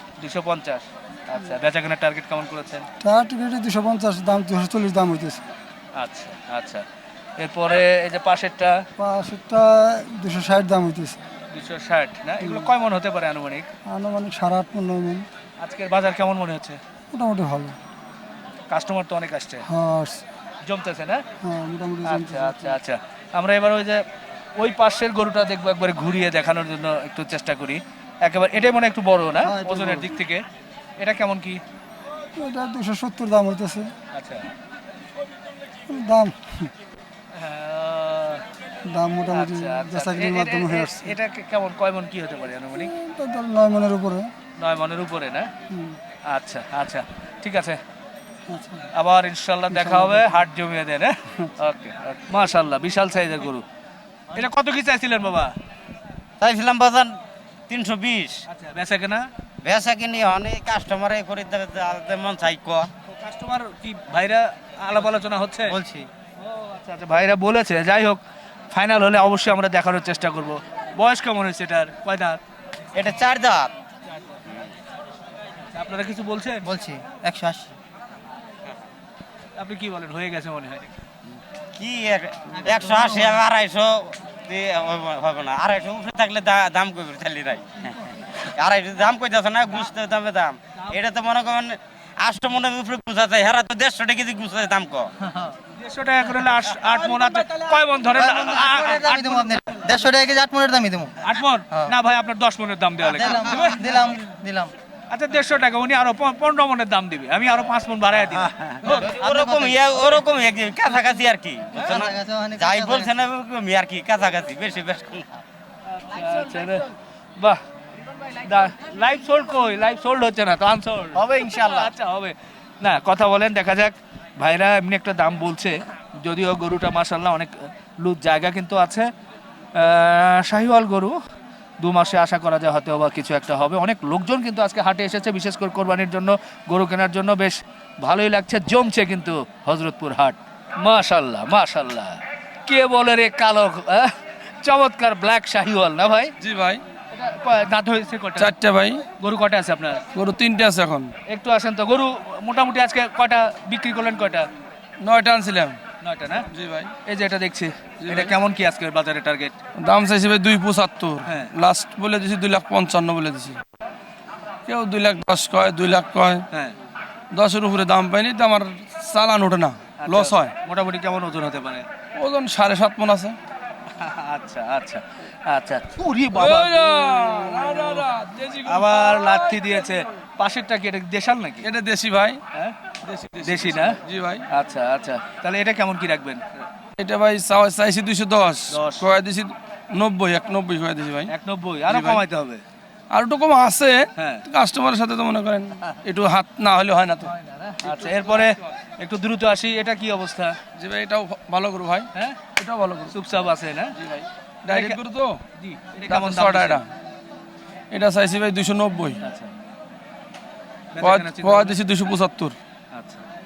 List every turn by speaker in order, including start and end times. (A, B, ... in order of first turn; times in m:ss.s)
0:00.2-0:02.9 A
0:03.0-0:05.4 B
0:06.0-0:06.8 A
0:07.4-0:08.8 A
0:09.0-0:11.2 B
0:11.5-0:13.7 A
0:12.4-0:12.7 B
0:13.9-0:15.3 B
0:15.6-0:16.8 A
0:17.1-0:17.8 B
0:18.7-0:19.6 A
0:19.7-0:20.2 B
0:20.6-0:21.2 A
0:21.4-0:22.8 B
0:22.1-0:24.0 A
0:24.6-0:30.4 A
0:29.4-0:30.2 B
0:31.0-0:31.6 A
0:32.4-0:33.9 B
0:34.1-0:34.5 A
0:35.9-0:36.7 B
0:37.4-0:38.4 A
0:38.9-0:41.2 B
0:39.3-0:42.9 A
0:42.9-0:44.3 B
0:44.6-0:45.5 A
0:45.7-0:46.0 B
0:46.3-0:47.8 A
0:48.5-0:48.9 B
0:49.0-0:53.6 A
0:49.7-0:50.4 B
0:54.3-0:55.5 A
0:56.4-0:57.2 C
0:57.7-0:58.4 C
0:58.5-0:59.3 A
0:59.6-1:02.9 C
1:03.1-1:05.8 A
1:05.8-1:06.1 D
1:06.4-1:08.2 A
1:08.7-1:12.4 A
1:13.0-1:13.7 C
1:15.7-1:16.7 A
1:16.6-1:17.7 D
1:19.6-1:20.9 A
1:21.8-1:35.1 C
1:35.8-1:40.0 A
1:38.2-1:41.1 D
1:41.2-1:44.0 A
1:43.1-1:44.7 D
1:45.1-1:49.2 A
1:48.9-1:55.4 C
1:51.8-1:53.1 D
1:56.0-1:57.6 A
1:58.4-2:09.1 A
2:01.2-2:01.9 C
2:09.8-2:11.2 A
2:11.8-2:24.1 A
2:24.6-2:26.3 A
2:26.4-2:26.8 E
2:27.1-2:28.5 A
2:28.4-2:29.0 E
2:29.2-2:30.0 A
2:30.2-2:31.1 E
2:31.3-2:34.5 A
2:35.0-2:35.8 E
2:36.0-2:36.4 A
2:36.5-2:36.9 E
2:37.1-2:39.5 A
2:38.0-2:38.3 E
2:39.8-2:43.6 E
2:41.3-2:41.5 A
2:44.7-2:46.4 E
2:47.3-2:50.5 E
2:50.0-2:51.8 A
2:52.2-2:53.4 E
2:54.0-2:57.0 A
2:56.3-2:59.8 E
2:57.7-2:58.0 A
2:58.7-3:01.7 A
3:01.6-3:02.4 E
3:03.0-3:04.4 E
3:03.4-3:04.0 A
3:04.5-3:06.4 A
3:07.0-3:11.3 E
3:08.7-3:09.1 A
3:11.3-3:12.6 A
3:11.9-3:12.2 E
3:13.1-3:17.3 E
3:14.2-3:14.4 A
3:17.5-3:20.6 A
3:17.9-3:18.2 E
3:20.8-3:23.1 E
3:22.1-3:22.4 A
3:23.1-3:23.9 A
3:24.0-3:25.4 E
3:24.7-3:25.0 A
3:25.6-3:26.8 A
3:26.1-3:26.8 E
3:27.9-3:29.2 E
3:29.2-3:29.5 A
3:30.9-3:31.8 A
3:31.0-3:32.6 E
3:32.9-3:33.2 A